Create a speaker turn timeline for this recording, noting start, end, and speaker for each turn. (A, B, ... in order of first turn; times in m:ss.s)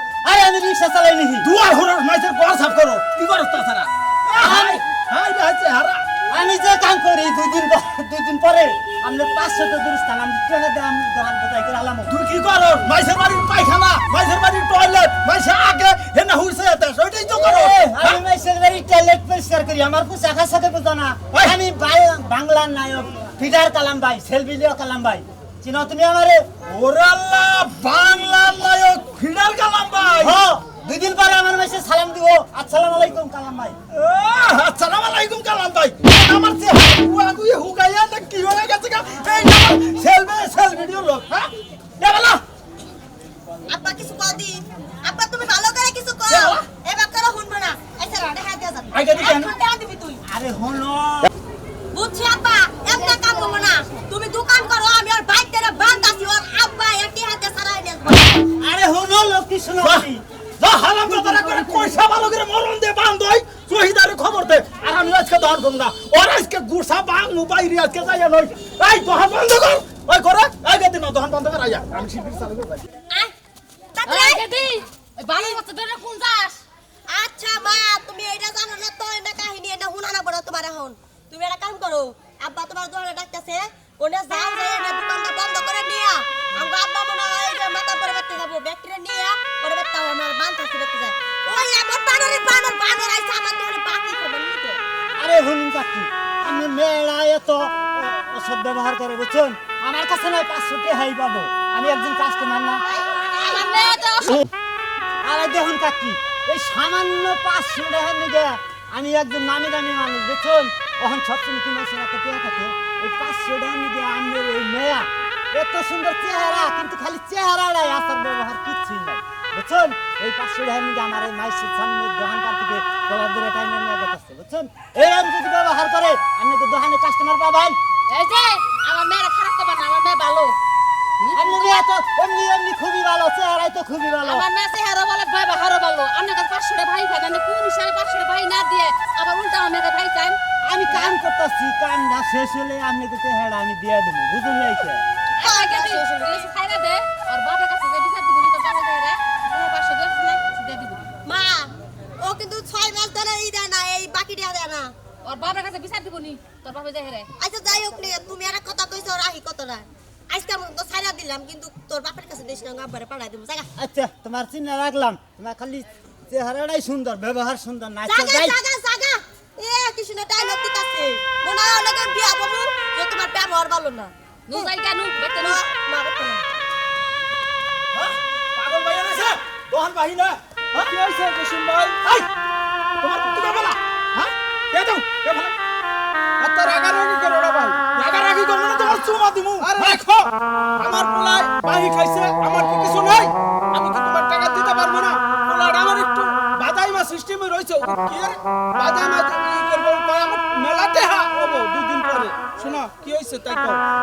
0:00.2-0:01.5 A
0:01.4-0:06.0 B
0:04.4-0:04.8 A
0:06.3-0:12.1 A
0:12.1-0:18.2 B
0:17.3-0:26.5 A
0:26.7-0:30.4 B
0:30.2-0:33.8 A
0:33.9-0:42.4 B
0:43.7-0:50.2 C
0:46.3-0:46.6 B
0:48.9-0:49.5 B
0:50.3-0:51.3 A
0:51.9-0:58.4 C
0:58.6-1:00.2 A
0:59.8-1:00.1 B
1:00.6-1:12.8 B
1:00.9-1:02.0 A
1:14.0-1:14.5 C
1:14.1-1:16.6 D
1:15.2-1:15.6 C
1:17.1-1:34.8 C
1:35.2-1:42.8 A
1:42.9-1:44.3 C
1:43.4-1:44.4 D
1:45.2-2:07.8 A
2:08.1-2:10.6 D
2:11.2-2:11.8 D
2:11.3-2:14.4 A
2:14.2-2:20.4 D
2:20.6-2:25.0 A
2:20.9-2:21.2 D
2:25.4-2:26.5 C
2:25.4-2:31.0 D
2:31.2-2:34.9 C
2:35.2-2:37.3 D
2:37.4-2:43.7 C
2:43.8-2:48.6 A
2:48.1-2:54.7 C
2:54.5-2:55.6 D
2:55.4-2:56.5 C
2:58.0-3:00.9 B
3:00.9-3:02.0 E
3:03.0-3:05.6 B
3:06.4-3:07.9 E
3:07.9-3:10.3 B
3:09.6-3:10.2 E
3:10.8-3:23.8 E
3:11.6-3:12.5 B